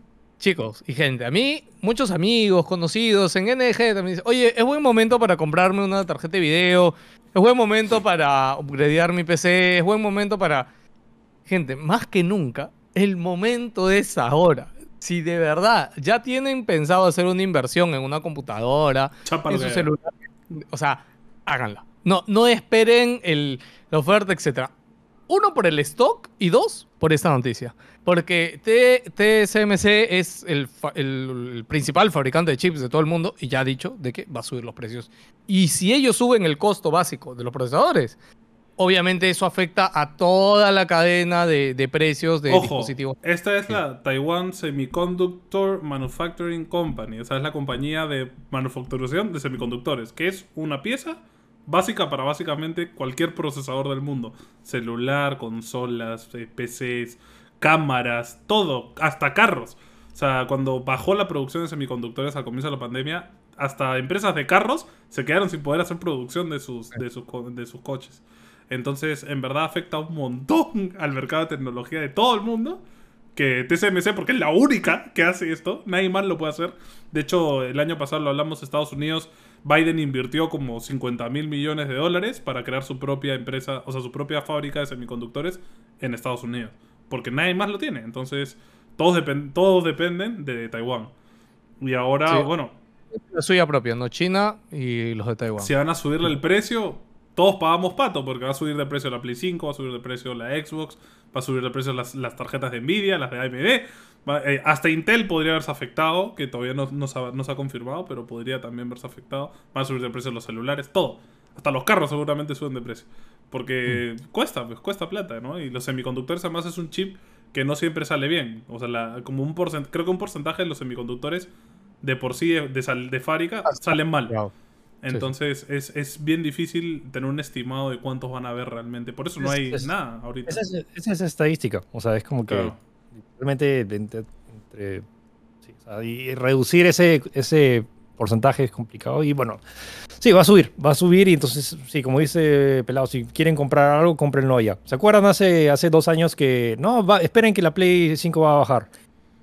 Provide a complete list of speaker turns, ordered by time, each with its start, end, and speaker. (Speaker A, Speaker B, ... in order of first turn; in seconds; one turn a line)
Speaker A: 0.4-10.7
Speaker A: 11.5-24.7
Speaker B: 19.2-19.9
Speaker A: 25.3-38.2
Speaker A: 38.8-43.2
Speaker B: 42.5-72.8
Speaker B: 73.3-91.1
Speaker B: 91.8-92.7
Speaker A: 93.1-95.7
Speaker B: 95.6-124.4
Speaker A: 123.7-124.5
Speaker B: 125.0-130.6
Speaker C: 129.4-129.9
Speaker C: 130.5-135.0
Speaker B: 132.5-132.8
Speaker C: 135.7-139.6
Speaker C: 140.2-148.9